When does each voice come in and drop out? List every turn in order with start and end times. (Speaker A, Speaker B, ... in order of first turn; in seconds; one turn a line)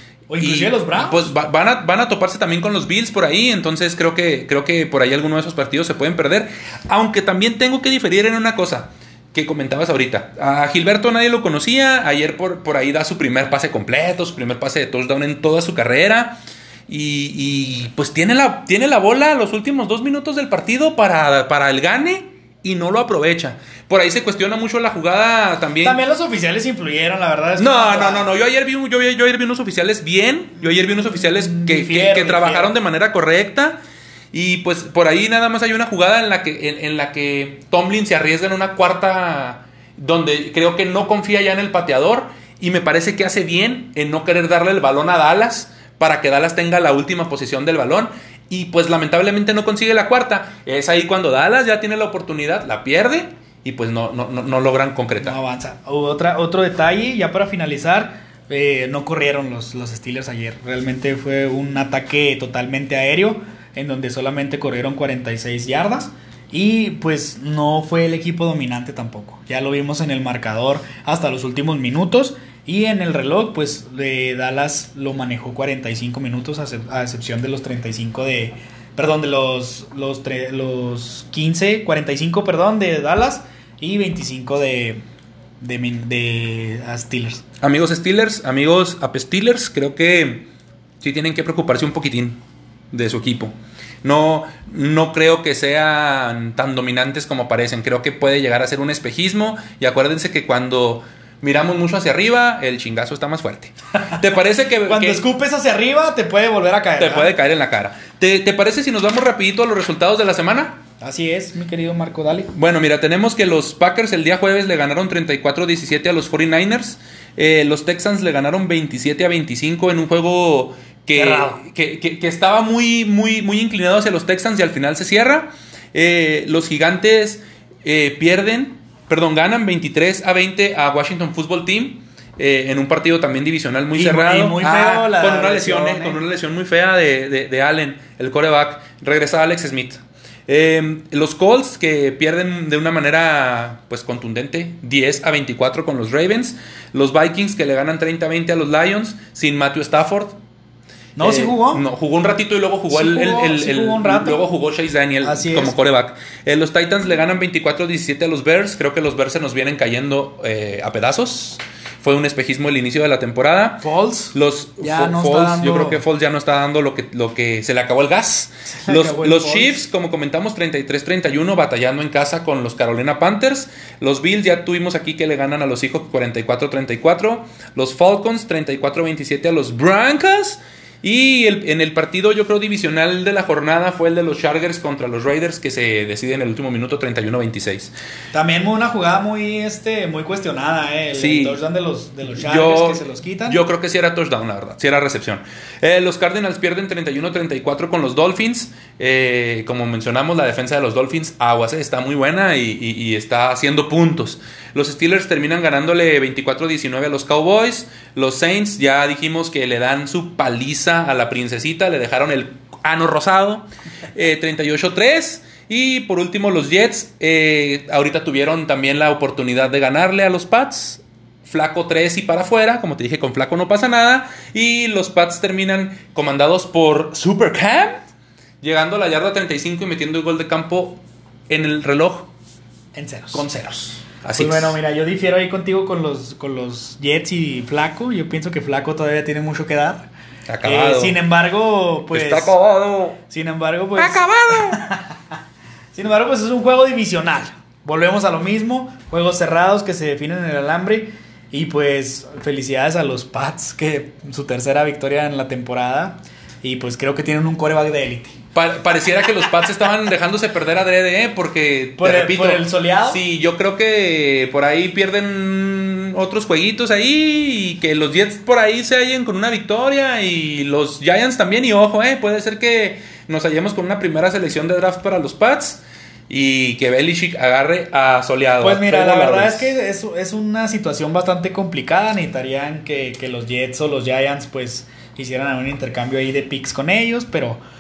Speaker A: 0.3-1.3
Speaker B: 0.4-26.0
Speaker A: 25.8-28.3
Speaker B: 27.6-33.8
Speaker A: 30.8-32.7
Speaker B: 34.3-55.4
Speaker A: 55.2-85.0
Speaker A: 85.6-87.4
Speaker B: 87.6-90.5
Speaker B: 91.0-92.4
Speaker B: 92.9-105.2
Speaker A: 104.8-107.3
Speaker B: 107.0-110.8
Speaker A: 111.0-112.5
Speaker B: 112.5-150.4
Speaker A: 121.1-121.6
Speaker A: 133.9-136.2
Speaker A: 151.2-151.8
Speaker B: 151.2-187.9
Speaker A: 152.9-154.4
Speaker A: 155.2-155.7
Speaker A: 163.8-166.0
Speaker A: 168.7-169.8
Speaker A: 188.3-193.6
Speaker B: 191.1-191.6
Speaker B: 192.4-228.0
Speaker B: 228.6-232.3
Speaker A: 232.9-233.4
Speaker B: 233.3-234.8
Speaker A: 234.3-240.1
Speaker B: 240.5-241.2
Speaker A: 240.6-242.6
Speaker B: 242.1-243.2
Speaker A: 243.3-245.0
Speaker B: 244.0-244.8
Speaker A: 245.9-258.4
Speaker B: 258.5-279.7
Speaker A: 262.0-263.2
Speaker A: 278.6-287.6